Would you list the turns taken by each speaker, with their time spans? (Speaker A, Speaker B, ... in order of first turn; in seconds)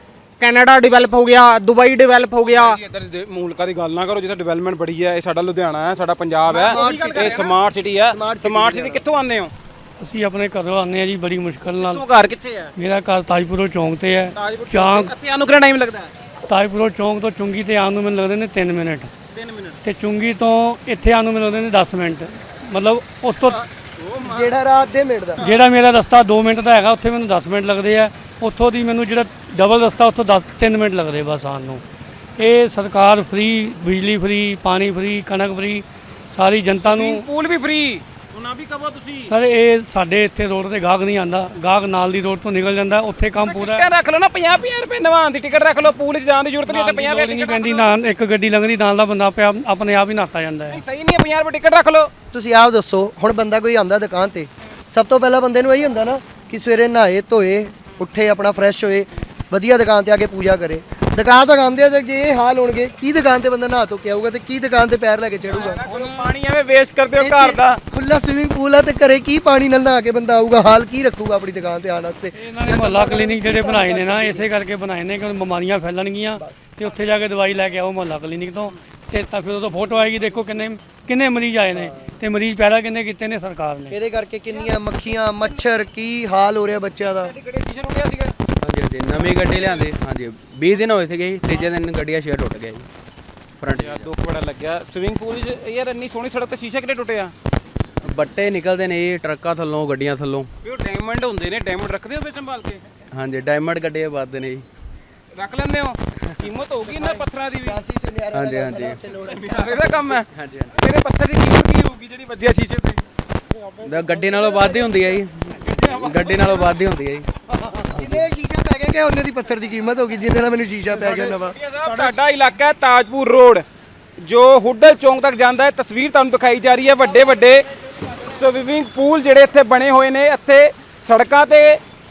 Speaker A: 0.4-2.8, 6.5-7.5
Speaker B: 2.4-9.5, 11.8-12.7, 14.3-16.1, 19.3-19.8, 23.4-24.6, 36.7-39.3, 43.3-47.9, 50.7-52.1, 65.5-67.8, 87.2-88.3, 89.1-89.9, 93.7-97.3, 100.6-102.9, 105.3-107.8, 109.2-113.0, 115.6-116.8, 121.3-123.6, 124.2-127.6, 128.2-131.8
Speaker C: 6.5-7.5, 8.1-9.0, 24.3-25.4, 52.3-65.8, 67.2-74.5, 76.4-76.7, 83.9-87.3, 106.9-110.0, 114.2-115.2, 117.7-121.5
Speaker D: 10.0-12.0, 12.8-15.1, 16.5-19.1, 19.8-23.6, 25.4-31.8, 32.4-37.2, 39.2-43.9, 46.6-50.8, 72.4-83.9
Speaker E: 88.6-92.9, 93.6-94.1, 98.1-100.5, 103.1-104.6, 108.3-109.0, 109.8-110.8, 113.8-117.3, 117.9-118.2